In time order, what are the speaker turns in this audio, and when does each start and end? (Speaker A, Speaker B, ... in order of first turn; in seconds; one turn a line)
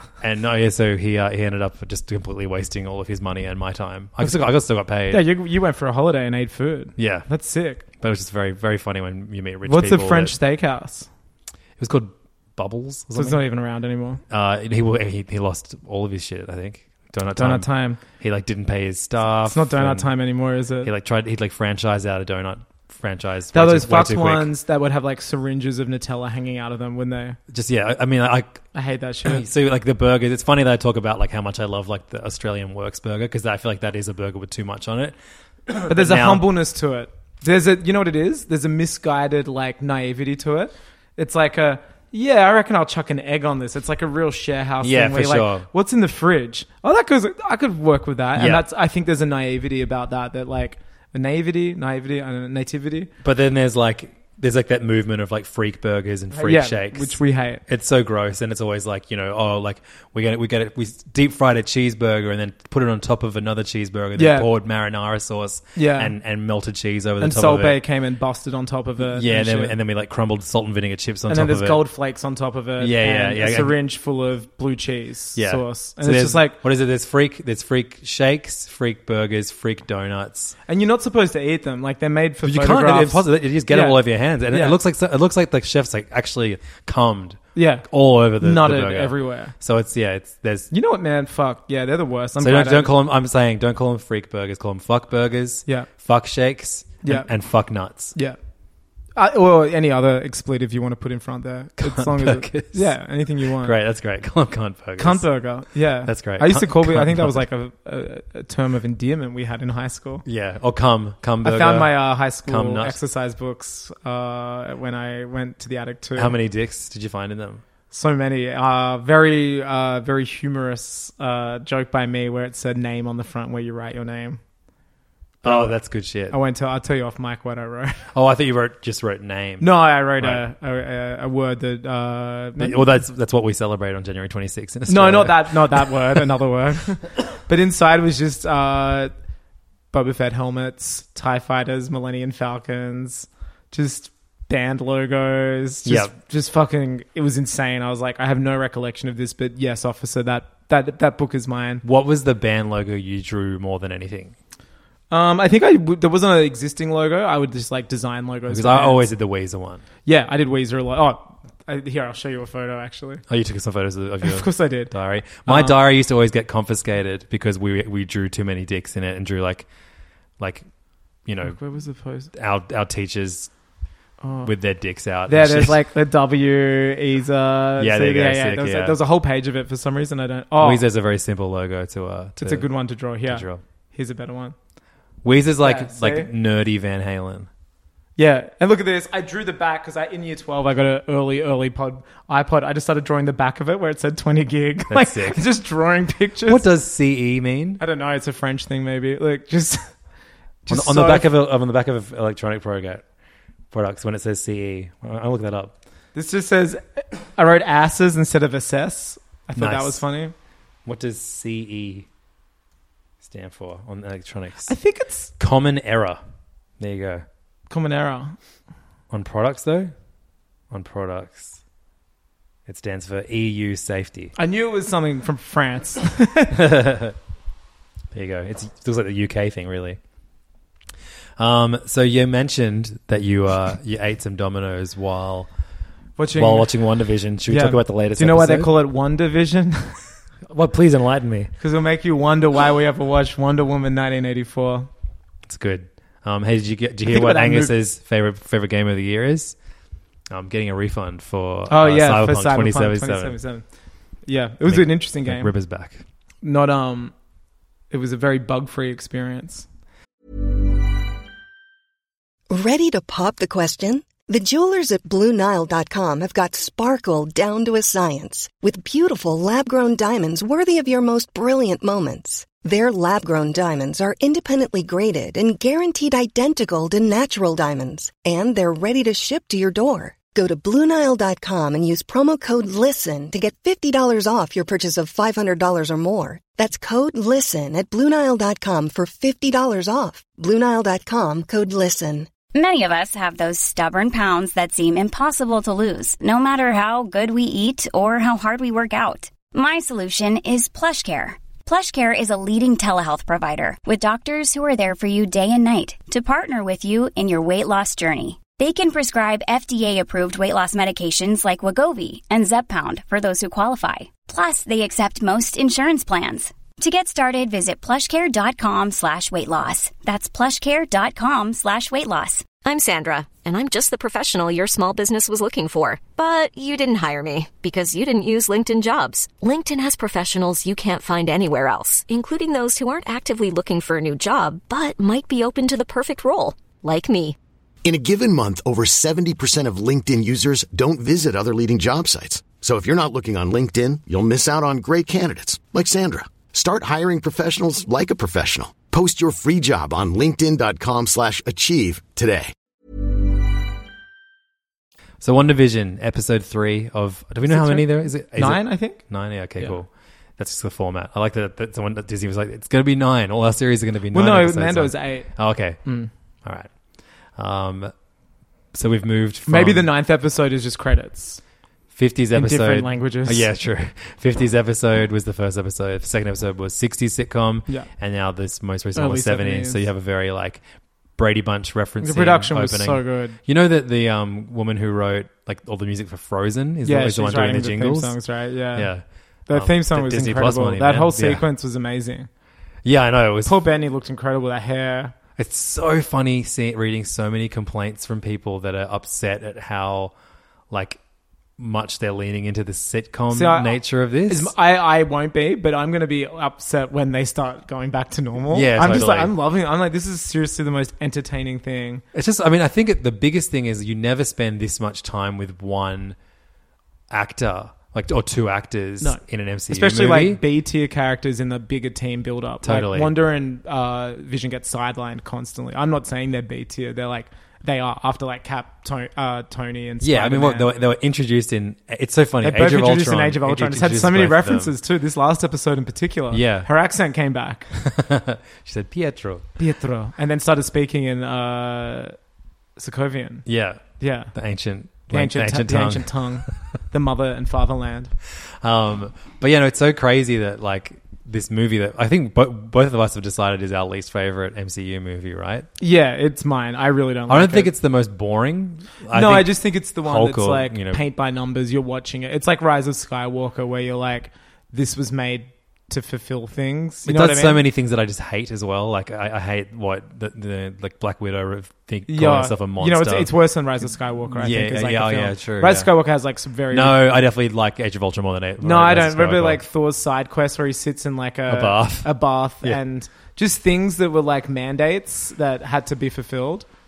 Speaker A: 0.2-5.2
Speaker B: 5.1-7.8
Speaker A: 7.0-7.3
Speaker A: 7.9-10.4
Speaker B: 9.7-11.1
Speaker A: 11.8-13.4
Speaker B: 13.1-14.2
Speaker A: 14.3-20.1
Speaker B: 17.4-18.0
Speaker B: 19.4-20.9
Speaker A: 20.8-24.5
Speaker B: 23.5-27.4
Speaker A: 27.5-28.7
Speaker B: 28.7-29.4
Speaker A: 29.2-36.5
Speaker B: 35.9-53.1
Speaker A: 44.8-45.7
Speaker A: 48.4-48.7
Speaker A: 53.2-67.8
Speaker B: 56.3-57.6
Speaker B: 64.2-64.5
Speaker B: 65.8-66.1
Speaker B: 67.2-69.8
Speaker A: 69.0-71.8
Speaker B: 71.3-76.6
Speaker A: 72.8-73.8
Speaker A: 75.4-80.5
Speaker B: 80.7-84.8
Speaker A: 82.4-90.7
Speaker B: 87.5-87.9
Speaker B: 88.4-89.5
Speaker B: 90.7-92.9
Speaker A: 92.4-98.1
Speaker B: 97.0-97.3
Speaker B: 99.2-103.8
Speaker A: 101.8-102.9
Speaker A: 103.6-105.3
Speaker B: 105.0-110.2
Speaker A: 106.0-107.4
Speaker A: 110.2-113.0
Speaker B: 111.4-116.3
Speaker A: 116.2-117.6
Speaker B: 117.9-124.4
Speaker A: 125.4-126.4
Speaker B: 125.4-125.8
Speaker B: 126.3-128.1
Speaker A: 128.1-130.4
Speaker B: 129.6-132.8
Speaker A: 132.6-136.2
Speaker B: 134.9-139.1
Speaker B: 139.9-151.8
Speaker A: 145.8-146.1
Speaker A: 151.8-154.3
Speaker B: 155.1-159.1
Speaker A: 158.5-159.8
Speaker B: 160.1-163.2
Speaker A: 163.3-169.7
Speaker B: 164.2-164.9
Speaker B: 165.4-165.8
Speaker A: 170.4-170.7
Speaker A: 171.2-171.6
Speaker B: 171.4-172.3
Speaker A: 172.3-173.5
Speaker B: 174.2-174.5
Speaker A: 174.4-175.8
Speaker B: 175.3-180.8
Speaker A: 177.8-179.0
Speaker A: 180.6-183.6
Speaker B: 182.4-184.6
Speaker A: 185.2-187.5
Speaker B: 185.6-186.3
Speaker B: 188.2-196.7
Speaker A: 194.9-195.4
Speaker A: 196.5-197.8
Speaker B: 197.8-199.9
Speaker B: 200.7-201.3
Speaker A: 200.7-203.0
Speaker A: 203.7-205.8
Speaker B: 206.2-210.3
Speaker A: 209.6-210.0
Speaker A: 210.8-212.1
Speaker A: 213.2-214.7
Speaker B: 214.7-215.3
Speaker A: 215.4-216.2
Speaker A: 216.8-217.2
Speaker B: 217.7-218.4
Speaker A: 219.1-219.9
Speaker A: 220.7-221.6
Speaker A: 222.7-224.3
Speaker B: 224.4-226.6
Speaker A: 226.5-227.2
Speaker A: 228.1-230.0
Speaker A: 231.4-235.5
Speaker B: 236.2-236.7
Speaker A: 236.3-238.7
Speaker B: 237.5-240.0
Speaker A: 240.5-241.5
Speaker B: 241.6-244.9
Speaker A: 245.5-249.6
Speaker B: 247.1-247.7
Speaker A: 250.3-253.4
Speaker B: 251.7-253.6
Speaker B: 254.3-255.5
Speaker A: 254.7-256.0
Speaker B: 256.4-257.1
Speaker B: 257.9-259.7
Speaker C: 262.5-292.3
Speaker D: 292.5-322.5
Speaker E: 322.6-337.4
Speaker F: 337.8-352.5
Speaker A: 355.2-365.8
Speaker B: 357.5-359.1
Speaker B: 364.1-365.3
Speaker B: 365.8-366.1
Speaker A: 366.4-366.7
Speaker A: 367.4-367.9
Speaker A: 368.7-369.9
Speaker B: 369.5-371.4
Speaker A: 371.9-380.6
Speaker B: 372.3-373.5
Speaker B: 378.9-379.8
Speaker A: 381.2-388.2
Speaker B: 382.0-383.4
Speaker B: 386.8-388.9
Speaker A: 388.7-391.4
Speaker B: 389.5-392.3
Speaker A: 392.8-393.6
Speaker B: 393.4-395.1
Speaker A: 395.4-400.1
Speaker A: 400.7-401.0
Speaker A: 401.6-404.5
Speaker B: 403.3-412.0
Speaker A: 408.5-409.3
Speaker A: 412.1-416.2
Speaker A: 417.1-420.4
Speaker B: 419.0-430.7
Speaker A: 422.6-423.1
Speaker A: 430.0-434.8
Speaker B: 432.4-437.7
Speaker A: 436.3-436.7
Speaker A: 437.7-439.5
Speaker B: 439.6-442.1
Speaker B: 442.8-443.5
Speaker A: 443.5-446.3
Speaker B: 444.0-444.3
Speaker B: 445.0-448.1
Speaker A: 448.6-455.7
Speaker B: 455.8-457.7
Speaker A: 457.3-461.0
Speaker B: 459.1-467.6
Speaker A: 467.1-473.3
Speaker B: 472.1-477.1
Speaker A: 474.3-475.9
Speaker A: 476.7-479.6
Speaker B: 478.6-486.7
Speaker A: 481.5-482.8